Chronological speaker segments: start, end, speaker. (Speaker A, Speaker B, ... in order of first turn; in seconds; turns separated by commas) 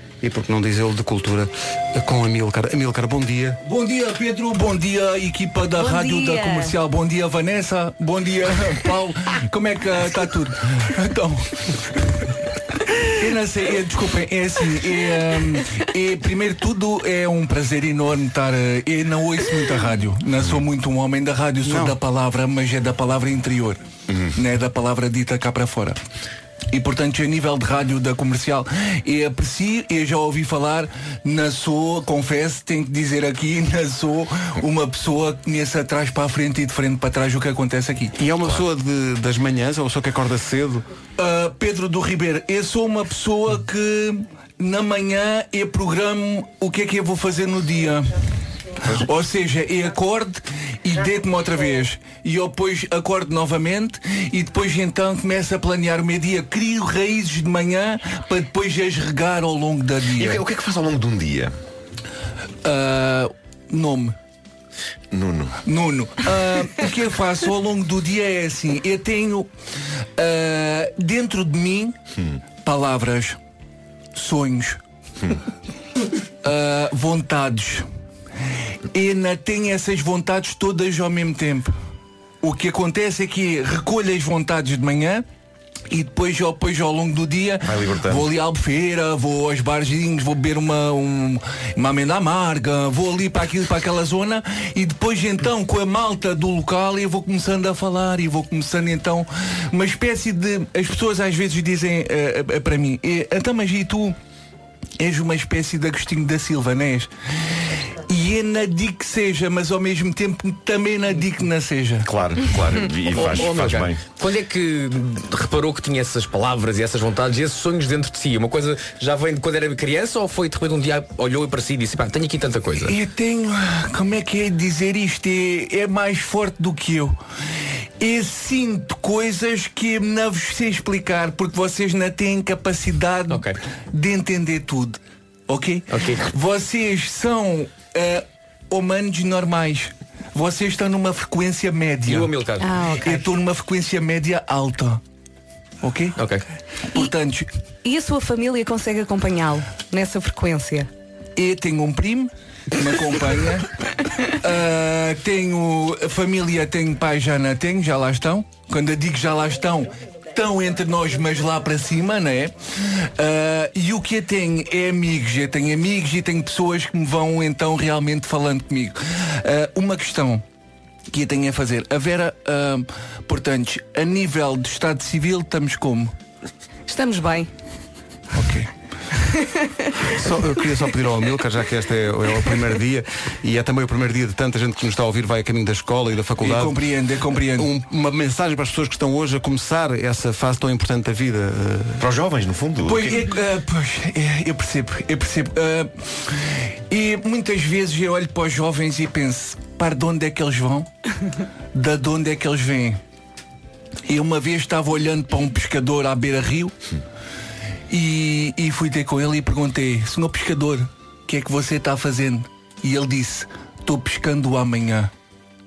Speaker A: 0.2-3.6, Speaker B: 3.6-12.3, Speaker C: 5.7-6.8, Speaker B: 13.2-23.8, Speaker A: 21.6-22.0, Speaker B: 24.3-26.0, Speaker B: 26.7-38.2, Speaker A: 38.2-40.9, Speaker B: 41.2-48.2, Speaker B: 48.8-60.4, Speaker D: 60.1-61.5, Speaker B: 62.6-64.2, Speaker D: 65.1-65.6, Speaker B: 65.7-69.5, Speaker B: 70.2-72.0, Speaker B: 72.6-73.4, Speaker B: 74.1-74.8, Speaker B: 76.4-77.9, Speaker B: 78.9-81.7, Speaker B: 82.4-85.2, Speaker B: 85.9-104.2, Speaker D: 87.6-88.3, Speaker B: 105.0-112.1, Speaker D: 112.0-114.0, Speaker E: 113.0-123.0, Speaker B: 122.8-127.2, Speaker B: 128.0-142.3, Speaker E: 133.3-133.6, Speaker E: 135.9-136.3, Speaker E: 142.1-142.7, Speaker C: 142.6-143.3, Speaker B: 143.0-145.0, Speaker B: 145.8-146.3, Speaker E: 146.2-146.4, Speaker B: 146.9-147.5, Speaker C: 147.8-150.9, Speaker B: 151.4-153.7, Speaker B: 154.3-170.4, Speaker B: 171.1-176.1, Speaker C: 176.9-177.5, Speaker B: 178.3-178.7, Speaker C: 179.2-179.7, Speaker A: 180.0-186.8, Speaker B: 186.4-187.7, Speaker A: 187.4-192.0, Speaker D: 192.0-193.4, Speaker B: 192.8-200.9, Speaker B: 201.7-203.0, Speaker B: 204.1-206.8, Speaker B: 207.9-215.1